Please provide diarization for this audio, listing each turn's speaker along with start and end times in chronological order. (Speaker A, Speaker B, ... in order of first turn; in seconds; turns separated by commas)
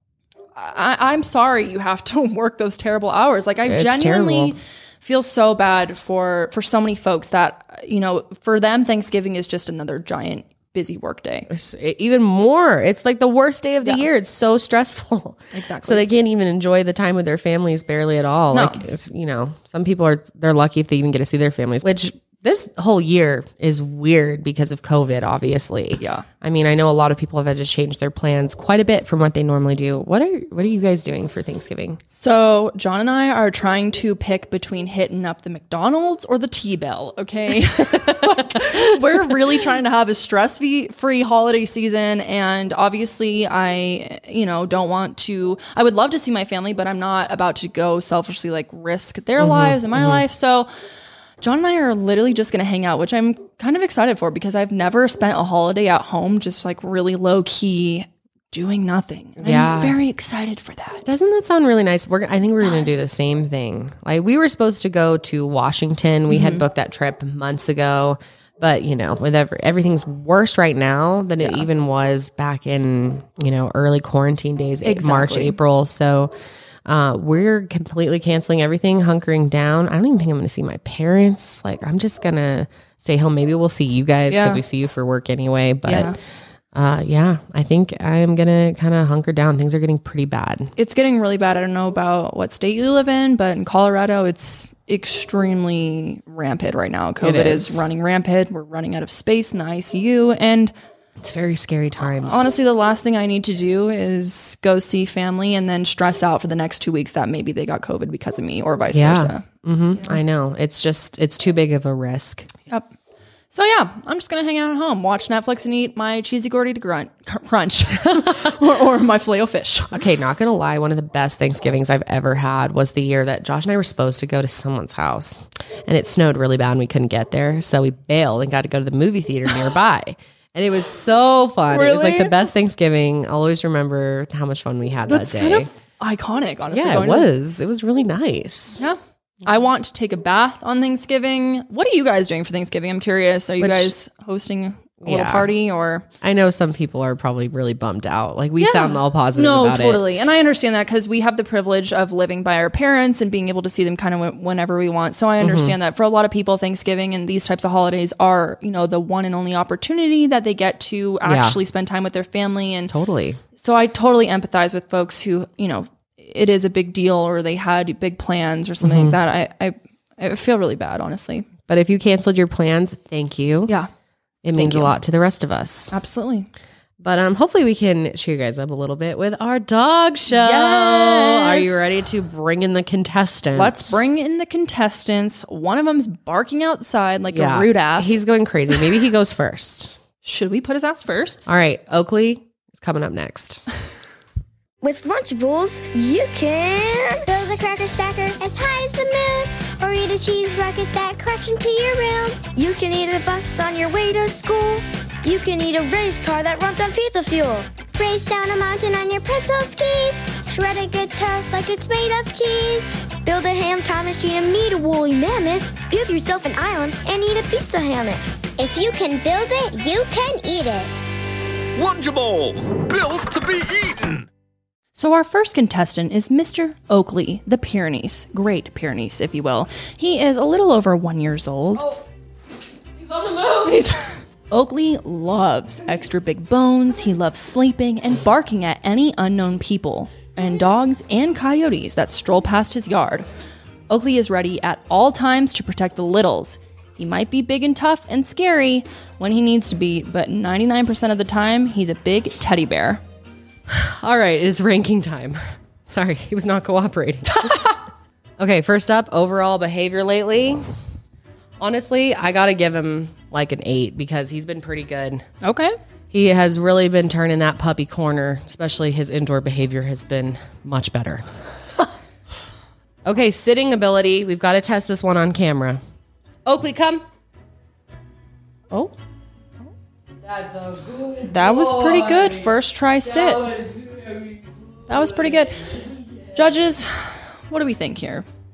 Speaker A: 0.6-11.5, Speaker B: 3.7-4.6, Speaker B: 11.5-32.0, Speaker A: 15.5-16.1, Speaker A: 18.5-18.8, Speaker A: 26.0-26.3, Speaker A: 32.1-50.7, Speaker B: 37.9-38.6, Speaker B: 49.4-50.2, Speaker A: 51.4-61.0, Speaker B: 59.4-60.0, Speaker B: 61.0-76.3, Speaker A: 62.6-63.0, Speaker A: 66.3-66.7, Speaker A: 74.8-75.6, Speaker B: 76.8-86.2, Speaker A: 84.3-84.6, Speaker A: 85.9-86.2, Speaker B: 86.7-90.7, Speaker A: 90.8-100.7, Speaker B: 97.2-97.8, Speaker B: 101.2-102.5, Speaker A: 102.0-109.5, Speaker B: 108.9-112.5, Speaker A: 113.5-120.0, Speaker B: 119.9-135.7, Speaker A: 131.7-132.5, Speaker A: 135.1-137.3, Speaker B: 136.7-138.8, Speaker A: 138.8-146.1, Speaker B: 143.6-143.9, Speaker B: 145.0-145.5, Speaker B: 146.2-150.0, Speaker A: 148.6-162.9, Speaker B: 155.4-155.8, Speaker B: 161.2-161.6, Speaker B: 162.9-163.4, Speaker A: 163.6-171.5, Speaker B: 168.8-169.2, Speaker B: 171.7-173.7, Speaker B: 174.4-176.0, Speaker A: 174.6-174.9, Speaker A: 175.9-176.5, Speaker B: 177.0-184.1, Speaker A: 180.3-181.9, Speaker A: 183.6-188.9, Speaker B: 187.3-190.0, Speaker A: 190.2-191.4, Speaker B: 191.5-193.6, Speaker C: 194.8-197.3, Speaker D: 197.3-202.4, Speaker C: 202.6-207.7, Speaker D: 208.0-213.0, Speaker C: 213.2-218.2, Speaker D: 218.6-220.9, Speaker E: 221.8-224.3, Speaker A: 224.9-231.9, Speaker B: 231.8-232.0, Speaker B: 233.0-234.0, Speaker A: 234.5-243.3, Speaker A: 243.9-253.0, Speaker B: 253.7-257.8, Speaker A: 257.4-257.8, Speaker B: 258.4-260.6, Speaker B: 261.6-265.2, Speaker A: 265.4-265.8, Speaker B: 266.1-271.2, Speaker B: 273.1-275.8, Speaker B: 276.4-277.0, Speaker B: 280.2-282.5, Speaker A: 281.3-283.5, Speaker B: 283.1-284.5, Speaker A: 284.9-288.3